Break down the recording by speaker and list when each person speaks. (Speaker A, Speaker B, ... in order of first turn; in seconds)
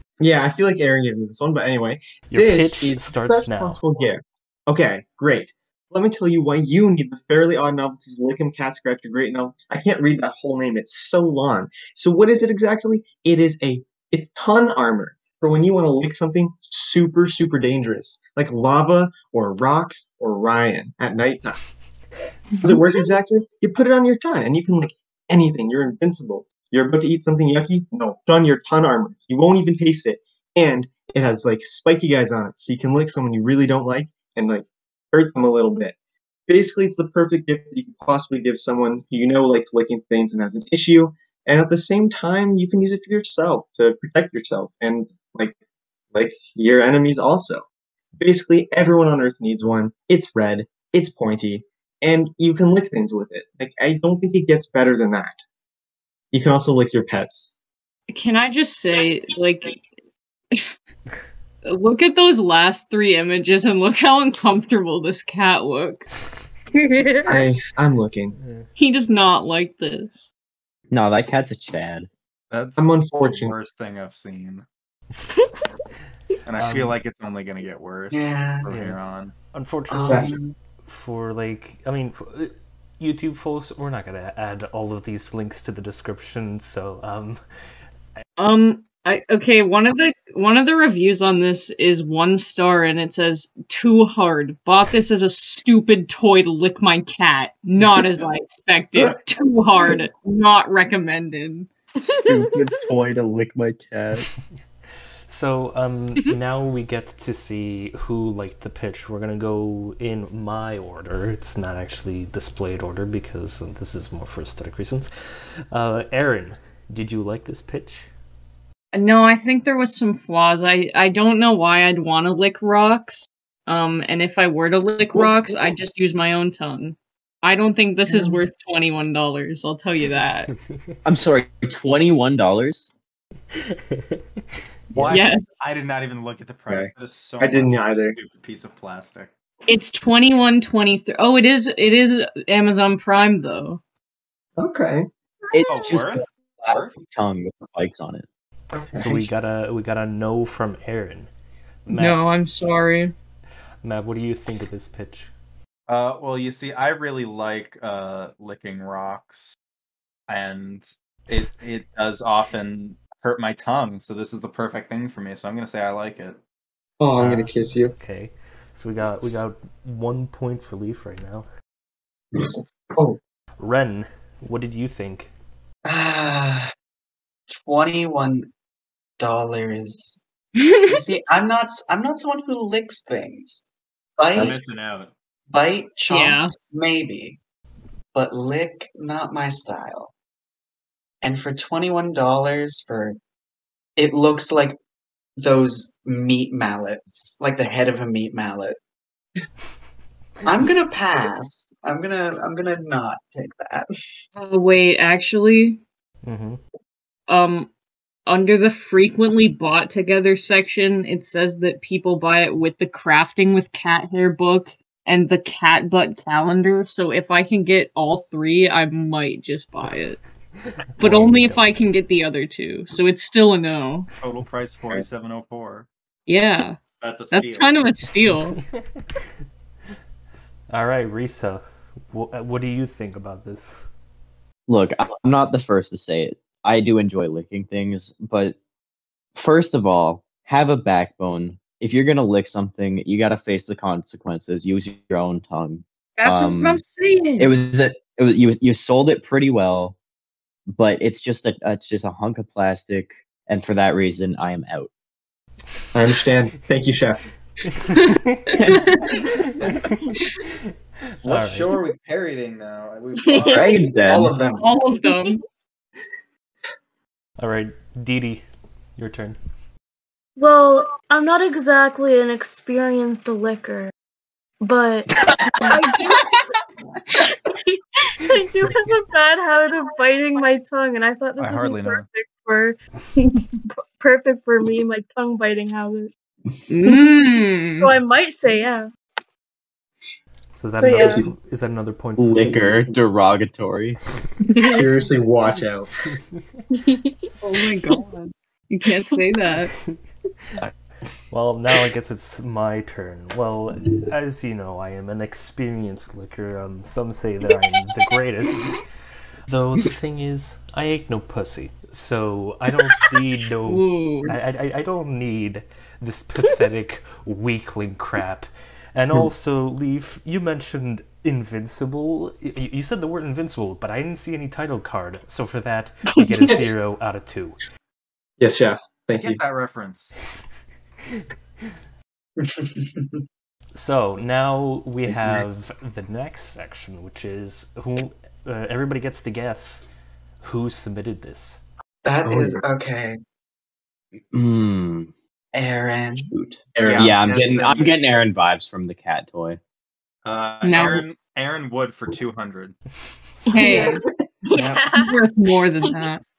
Speaker A: 0.2-21.6, 22.6-35.9, 36.5-45.5, 46.1-47.6, 48.2-55.4, 56.3-57.5, 67.3-68.3, 72.8-73.5, 76.6-76.9, 136.7-138.2, 144.6-145.1, 148.8-149.2, 167.0-167.9, 172.4-173.2, 255.9-257.2, 291.0-291.3, 294.6-295.9, 328.4-329.4, 342.2-342.6
Speaker B: 2.3-4.0, 68.4-68.7, 78.7-79.0, 79.5-80.3, 80.9-87.4, 105.3-118.1, 133.5-134.4, 148.9-151.3, 151.9-152.2, 153.8-155.3, 167.2-171.5, 173.6-175.3, 206.2-206.6, 221.0-221.8, 230.7-233.9, 257.9-258.8, 259.3-259.9, 261.2-261.8, 267.4-268.4, 269.0-269.4, 290.5-292.9, 301.3-308.8, 309.5-327.6, 333.7-339.9, 340.4-341.6
Speaker C: 22.6-23.0, 59.0-59.4, 66.8-67.4, 75.4-75.7, 102.1-102.6, 128.1-128.4, 263.2-263.8, 265.0-265.3, 270.4-273.9, 274.6-276.3, 277.2-286.1, 287.8-288.9, 290.8-291.2, 294.5-294.9, 296.7-297.3, 353.5-354.0, 354.5-355.1
Speaker D: 58.1-59.8, 61.6-66.2, 68.8-70.3, 88.4-101.7, 118.9-130.5, 135.1-135.4, 139.7-143.8, 151.9-153.1, 186.1-186.5, 204.3-205.8, 207.3-207.7, 208.2-220.2, 221.0-224.1, 226.3-226.8, 227.3-228.6, 246.2-247.6, 264.6-265.4, 276.1-276.4, 286.7-287.9, 297.4-299.7, 313.6-314.4, 350.6-351.0, 353.5-354.0, 354.9-356.2
Speaker E: 70.9-72.1, 102.1-104.3, 131.0-132.9, 145.5-148.3, 234.7-238.6, 239.3-246.8, 247.4-249.9, 250.7-254.9, 258.6-258.9, 263.4-264.3, 275.1-275.8, 292.2-294.0, 335.1-335.4, 344.3-345.1, 346.3-349.6
Speaker F: 72.5-74.7, 76.5-79.3, 134.9-139.3, 145.7-146.9, 155.9-159.6, 160.3-166.4, 184.3-185.1, 224.2-225.9, 227.0-227.8, 261.2-264.2, 281.4-282.1, 329.2-330.1, 346.8-347.9, 350.2-352.8
Speaker G: 78.1-78.7, 79.9-80.5, 175.8-176.7, 177.5-178.5, 179.2-180.2, 180.8-183.6, 184.2-184.6, 185.5-187.4, 188.1-190.1, 191.2-193.2, 194.0-194.8, 195.4-198.8, 200.4-203.9, 264.0-264.7, 332.4-333.1, 342.0-343.2, 345.5-347.1, 354.5-354.9